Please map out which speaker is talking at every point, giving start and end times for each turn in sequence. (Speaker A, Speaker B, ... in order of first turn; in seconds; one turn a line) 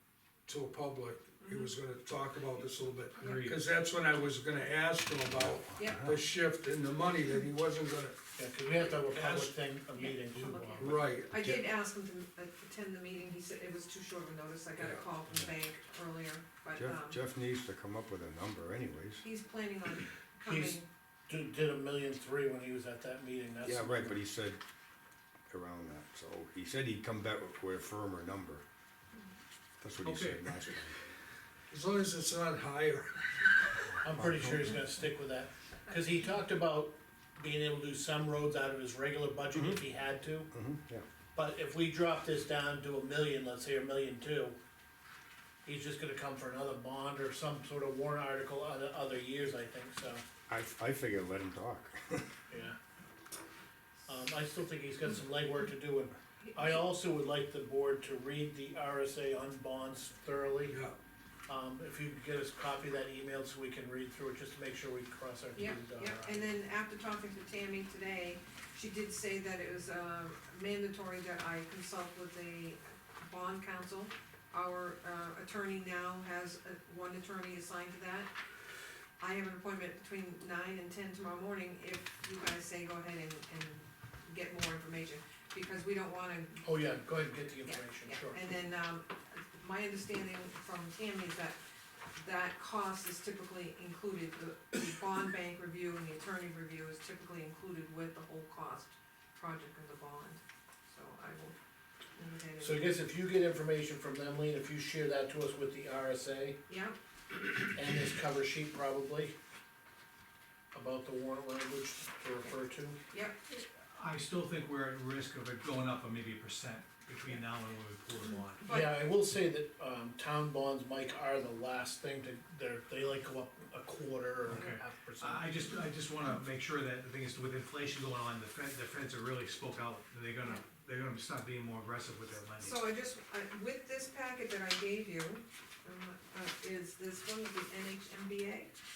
Speaker A: 0.5-8.2
Speaker B: 1.4-1.7
Speaker B: 3.2-3.5
Speaker C: 3.2-3.6
Speaker D: 5.3-6.1
Speaker B: 5.8-6.1
Speaker E: 8.4-11.0
Speaker B: 8.8-9.1
Speaker A: 9.1-9.6
Speaker B: 9.9-17.2
Speaker A: 10.8-11.7
Speaker D: 16.8-19.2
Speaker B: 19.2-20.9
Speaker E: 20.5-24.2
Speaker D: 23.6-24.6
Speaker D: 25.5-28.6
Speaker D: 29.8-31.0
Speaker C: 30.0-30.5
Speaker A: 31.7-33.6
Speaker E: 34.0-40.5
Speaker D: 34.1-34.8
Speaker D: 39.5-39.8
Speaker D: 40.5-41.1
Speaker E: 41.3-44.6
Speaker E: 45.6-50.2
Speaker D: 50.5-52.3
Speaker E: 52.5-52.8
Speaker E: 54.1-60.8
Speaker B: 56.4-56.8
Speaker A: 60.7-61.0
Speaker E: 61.5-66.4
Speaker B: 65.5-78.3
Speaker B: 79.2-86.8
Speaker E: 86.6-88.6
Speaker B: 87.6-91.6
Speaker B: 92.2-101.6
Speaker B: 102.2-102.9
Speaker E: 102.6-106.6
Speaker B: 106.7-107.0
Speaker E: 107.7-109.3
Speaker E: 110.7-113.0
Speaker B: 113.1-113.4
Speaker C: 113.5-118.6
Speaker B: 118.2-119.1
Speaker E: 118.7-125.6
Speaker B: 124.5-124.8
Speaker C: 124.5-132.8
Speaker B: 132.6-138.7